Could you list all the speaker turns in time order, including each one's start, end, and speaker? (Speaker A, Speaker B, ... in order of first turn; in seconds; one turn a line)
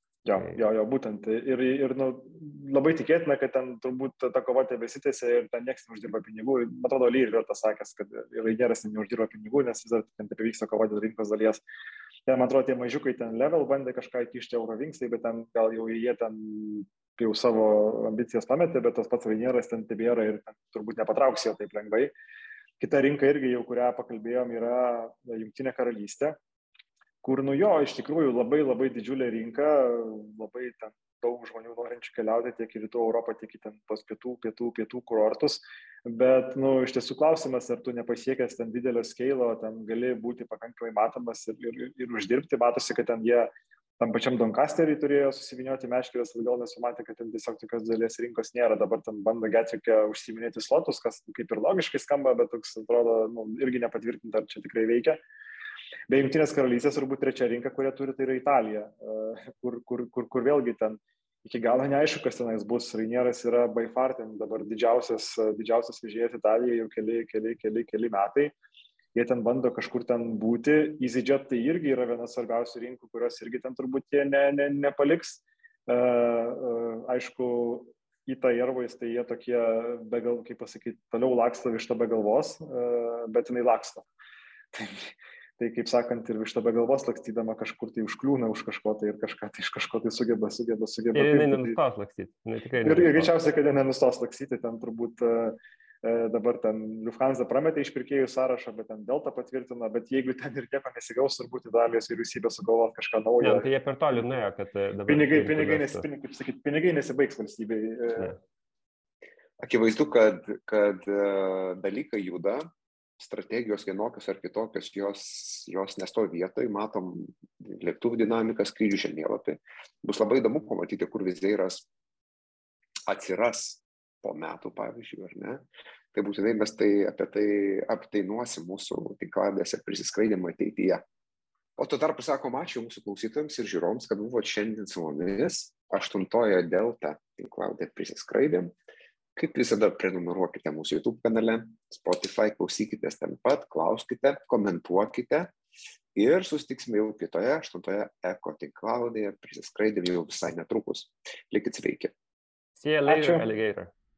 Speaker A: 0.2-11.6
Speaker B: 0.3-0.6
Speaker A: 12.3-22.1
Speaker A: 22.8-26.4
Speaker A: 27.2-55.2
Speaker A: 56.1-68.5
Speaker A: 69.2-84.1
Speaker A: 84.7-91.8
Speaker B: 91.1-93.3
Speaker A: 92.8-103.7
Speaker B: 103.4-106.0
Speaker A: 105.1-108.4
Speaker C: 109.6-121.9
Speaker C: 123.1-131.0
Speaker C: 131.8-138.7
Speaker C: 139.4-145.5
Speaker C: 146.2-152.1
Speaker B: 152.8-153.9
Speaker A: 153.1-153.5